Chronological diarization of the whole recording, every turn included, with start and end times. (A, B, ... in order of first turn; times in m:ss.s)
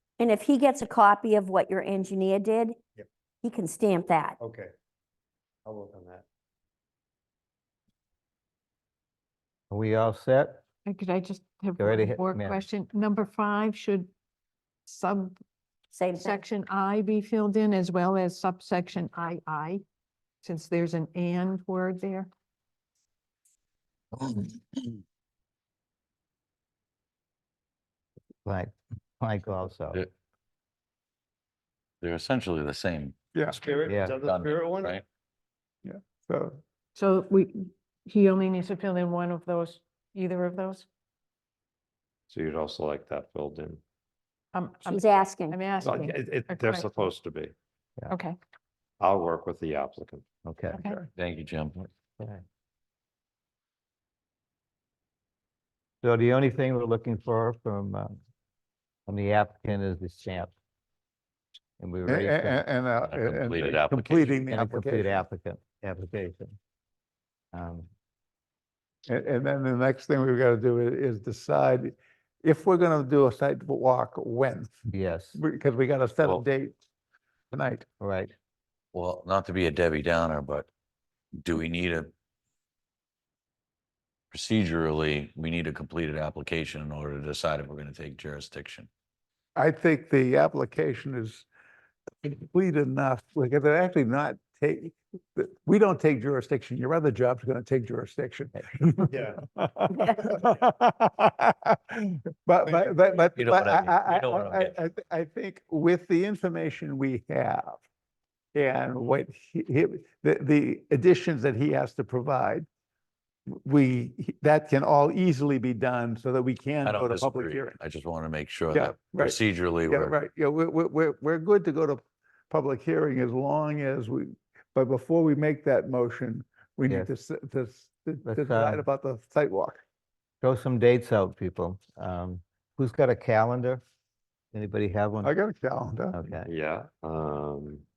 0:00.2-0:02.8 A
0:03.4-0:04.4 A
0:04.4-0:04.7 B
0:05.7-0:06.2 B
0:09.7-0:10.6 C
0:10.9-0:14.1 D
0:11.8-0:12.6 C
0:14.9-0:15.4 D
0:15.9-0:16.4 A
0:16.1-0:19.8 D
0:20.4-0:22.3 D
0:24.2-0:24.9 E
0:28.4-0:30.0 C
0:32.0-0:33.2 E
0:33.3-0:33.6 F
0:33.5-0:35.0 B
0:33.9-0:34.1 C
0:34.0-0:35.0 E
0:35.8-0:36.6 F
0:37.0-0:40.9 D
0:42.3-0:43.8 G
0:44.5-0:47.1 D
0:44.9-0:45.6 A
0:45.8-0:47.5 G
0:48.1-0:48.4 D
0:49.0-0:50.2 G
0:50.4-0:50.8 C
0:50.7-0:51.0 D
0:50.8-0:51.1 F
0:51.2-0:51.9 E
0:56.0-0:58.2 C
0:59.1-1:00.5 C
1:01.8-1:02.6 C
1:02.1-1:05.2 F
1:03.0-1:04.4 E
1:04.5-1:06.6 C
1:07.5-1:07.9 C
1:09.1-1:14.7 F
1:14.9-1:15.4 C
1:15.4-1:16.8 F
1:17.5-1:17.9 F
1:18.0-1:18.3 C
1:18.9-1:20.7 E
1:21.4-1:22.1 E
1:24.3-1:28.9 E
1:29.6-1:31.5 F
1:32.2-1:47.8 F
1:39.1-1:39.4 B
1:39.9-1:40.4 A
1:43.3-1:44.8 E
1:48.5-1:52.7 F
1:53.5-1:57.8 F
1:56.8-2:00.1 E
1:58.7-2:09.8 F
2:08.3-2:08.8 C
2:10.4-2:13.8 C
2:14.5-2:15.3 C
2:15.2-2:16.2 F
2:16.1-2:16.5 C
2:16.4-2:17.8 G